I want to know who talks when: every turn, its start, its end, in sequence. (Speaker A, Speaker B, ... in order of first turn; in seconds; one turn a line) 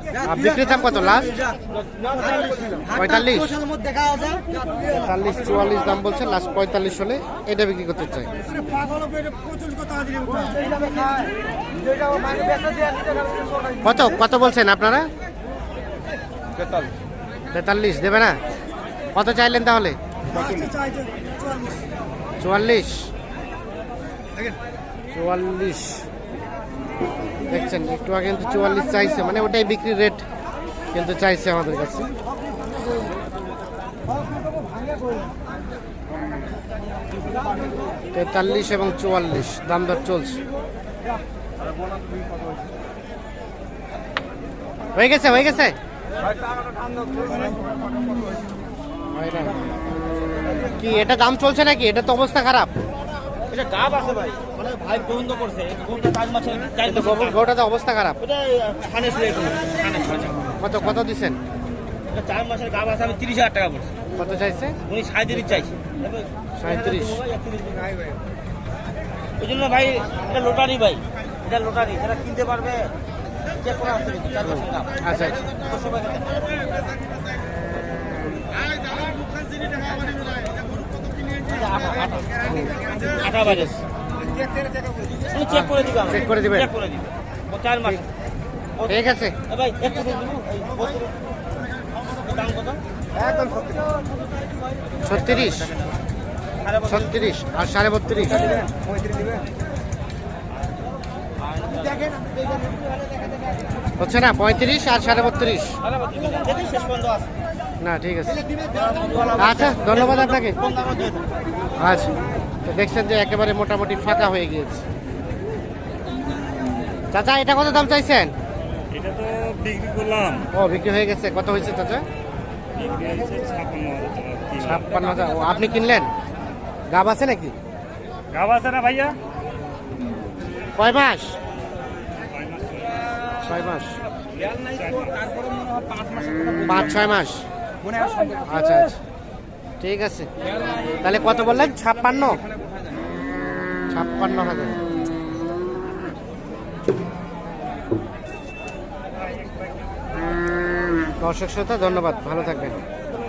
Speaker A: 0.2-1.4
Speaker B: 1.7-3.0
Speaker A: 2.9-3.6
Speaker A: 4.9-8.3
Speaker C: 8.7-11.2
Speaker C: 12.0-13.7
Speaker A: 13.8-15.1
Speaker A: 17.5-18.4
Speaker A: 19.1-20.0
Speaker C: 20.6-21.1
Speaker A: 22.4-23.1
Speaker A: 25.1-26.1
Speaker A: 27.5-30.2
Speaker A: 30.9-32.1
Speaker A: 38.1-40.4
Speaker A: 45.0-45.8
Speaker A: 49.1-49.6
Speaker A: 50.8-52.7
Speaker B: 53.5-57.5
Speaker A: 56.9-58.2
Speaker B: 58.2-60.5
Speaker A: 60.6-61.4
Speaker B: 62.1-64.0
Speaker A: 64.2-64.8
Speaker B: 64.9-68.1
Speaker A: 66.6-67.2
Speaker B: 69.4-72.9
Speaker B: 73.5-76.7
Speaker A: 75.0-75.5
Speaker B: 81.5-82.4
Speaker A: 82.5-82.8
Speaker B: 83.0-83.8
Speaker A: 83.5-83.7
Speaker B: 85.3-88.0
Speaker A: 85.5-86.7
Speaker B: 88.8-91.1
Speaker A: 88.9-89.4
Speaker B: 92.2-92.8
Speaker A: 95.0-95.7
Speaker B: 95.5-95.7
Speaker B: 96.6-97.3
Speaker A: 96.9-98.6
Speaker B: 101.4-102.2
Speaker A: 104.0-105.8
Speaker B: 105.8-107.3
Speaker A: 107.8-108.5
Speaker B: 108.6-111.3
Speaker A: 109.4-110.6
Speaker A: 111.8-114.8
Speaker A: 117.1-118.3
Speaker C: 118.9-120.5
Speaker A: 120.5-122.0
Speaker C: 122.8-125.2
Speaker A: 124.6-126.1
Speaker A: 126.9-127.5
Speaker C: 128.3-129.2
Speaker A: 130.8-131.4
Speaker C: 132.3-133.1
Speaker A: 133.4-134.0
Speaker C: 134.5-136.6
Speaker A: 136.6-137.5
Speaker C: 138.0-138.4
Speaker A: 138.5-139.0
Speaker A: 139.8-140.3
Speaker A: 141.0-142.4
Speaker A: 143.9-144.8
Speaker A: 151.2-152.8